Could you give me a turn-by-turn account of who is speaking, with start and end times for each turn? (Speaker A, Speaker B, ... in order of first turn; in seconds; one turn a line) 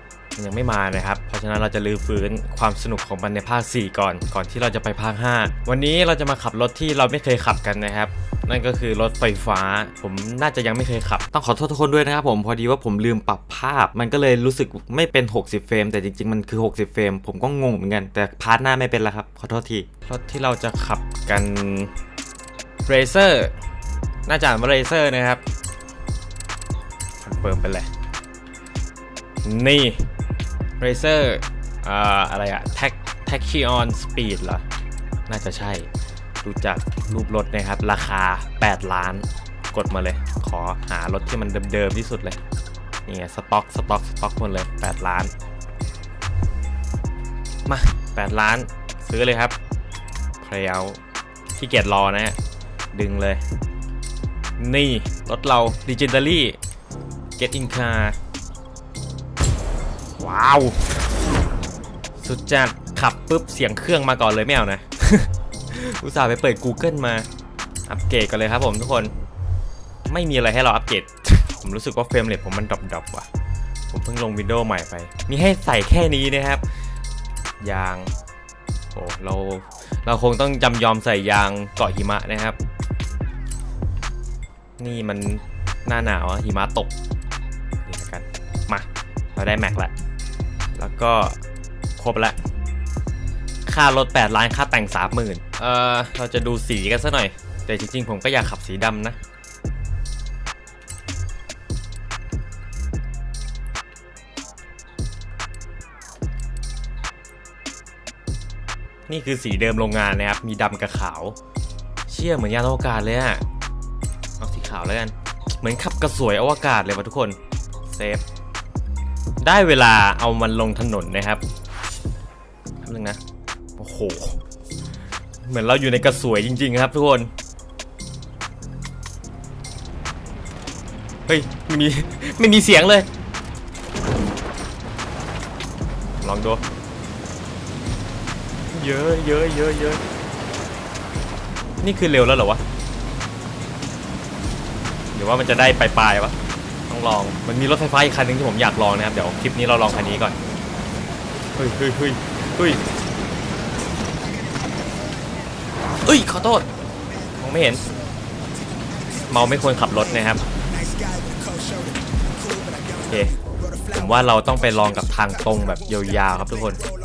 Speaker A: 0.4-21.9
Speaker A: 22.9-23.5
Speaker A: 24.3-25.4
Speaker A: 27.2-27.9
Speaker A: 29.4-30.1
Speaker A: 30.8-34.6
Speaker A: 35.3-35.9
Speaker A: 36.4-42.4
Speaker A: 43.1-45.3
Speaker A: 47.7-49.5
Speaker A: 50.4-51.0
Speaker A: 51.5-52.4
Speaker A: 52.9-53.4
Speaker A: 54.6-56.6
Speaker A: 57.4-58.2
Speaker A: 60.2-61.0
Speaker A: 62.2-67.3
Speaker A: 67.9-69.1
Speaker A: 70.1-73.3
Speaker A: 73.9-76.6
Speaker A: 77.6-78.1
Speaker A: 78.9-82.6
Speaker A: 84.8-86.9
Speaker A: 87.9-89.9
Speaker A: 90.8-91.4
Speaker A: 92.0-92.4
Speaker A: 93.7-99.2
Speaker A: 109.1-111.4
Speaker A: 112.1-113.4
Speaker A: 114.4-117.4
Speaker A: 117.9-118.2
Speaker A: 119.4-121.4
Speaker A: 122.8-123.2
Speaker A: 123.8-124.4
Speaker A: 125.5-127.3
Speaker A: 131.3-133.1
Speaker A: 136.2-136.6
Speaker A: 138.7-140.0
Speaker A: 141.8-142.6
Speaker A: 145.1-146.3
Speaker A: 146.9-150.4
Speaker A: 151.6-152.8
Speaker A: 156.1-156.7
Speaker A: 157.4-157.8
Speaker A: 159.3-160.4
Speaker A: 163.0-163.3
Speaker A: 163.9-166.8